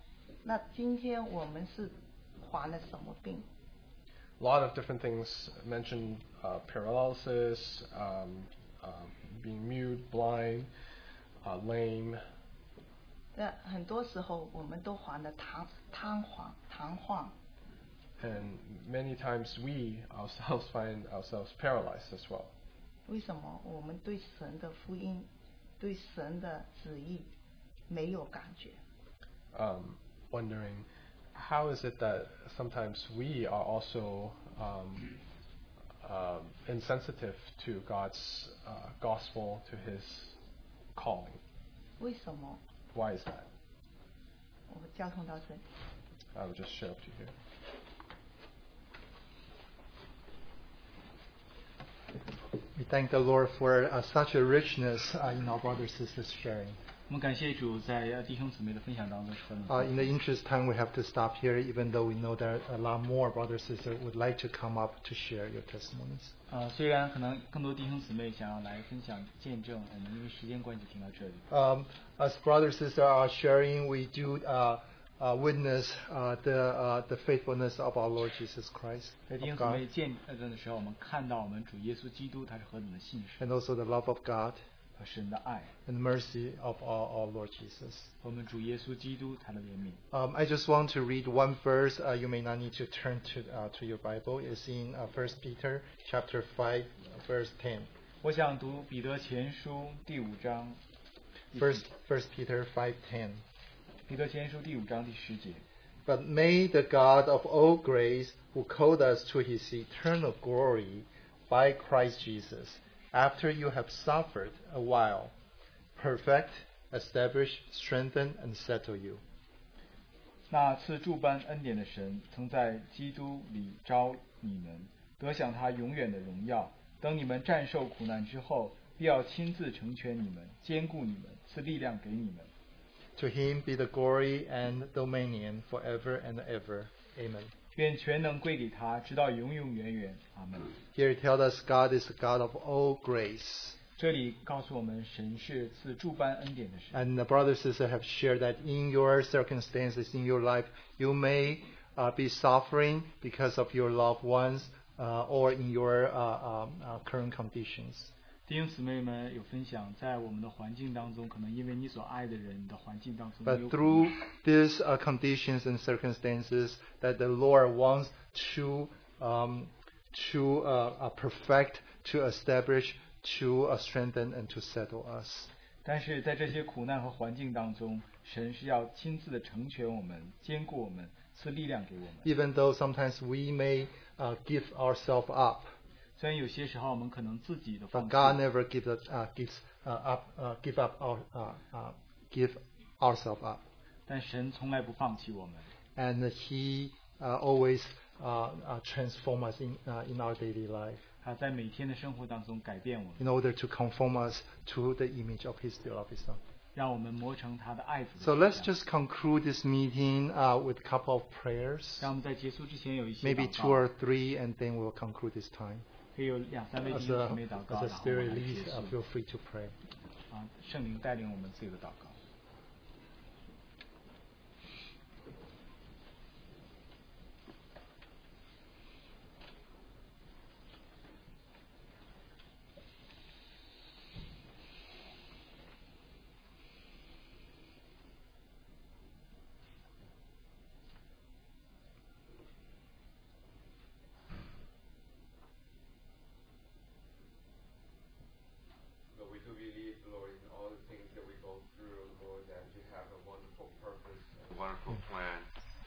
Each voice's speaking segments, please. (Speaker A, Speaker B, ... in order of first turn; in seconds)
Speaker A: 0.4-3.5, 13.3-17.4, 23.1-25.3, 25.8-27.3, 27.9-28.8, 42.0-42.6, 44.7-45.6
Speaker B: 4.4-10.7, 11.4-12.2, 18.2-22.5, 29.5-35.2, 36.0-40.4, 41.0-41.4, 42.9-43.5, 46.4-47.3
Speaker C: 52.8-56.8, 59.7-66.3, 71.5-79.8, 83.4-84.6, 85.9-88.1, 90.1-97.9, 101.5-103.4, 106.1-115.3, 116.0-119.2, 133.2-137.5, 140.9-143.8, 146.9-158.1, 163.5-175.5, 182.2-185.7, 187.9-193.6, 196.0-201.1, 203.2-206.4, 208.2-212.1, 213.2-215.8, 216.8-219.8
Speaker D: 57.1-59.8, 66.5-71.5, 79.3-83.4, 85.0-85.7, 88.2-90.0, 98.2-100.8, 101.5-101.9, 104.1-105.6, 120.5-132.5, 137.8-140.8, 144.0-147.0, 158.5-164.1, 175.8-182.3, 186.2-188.4, 194.1-195.7, 201.2-203.2, 206.8-208.7, 212.0-213.8, 216.2-218.9, 220.3-222.2
Speaker E: 249.1-255.5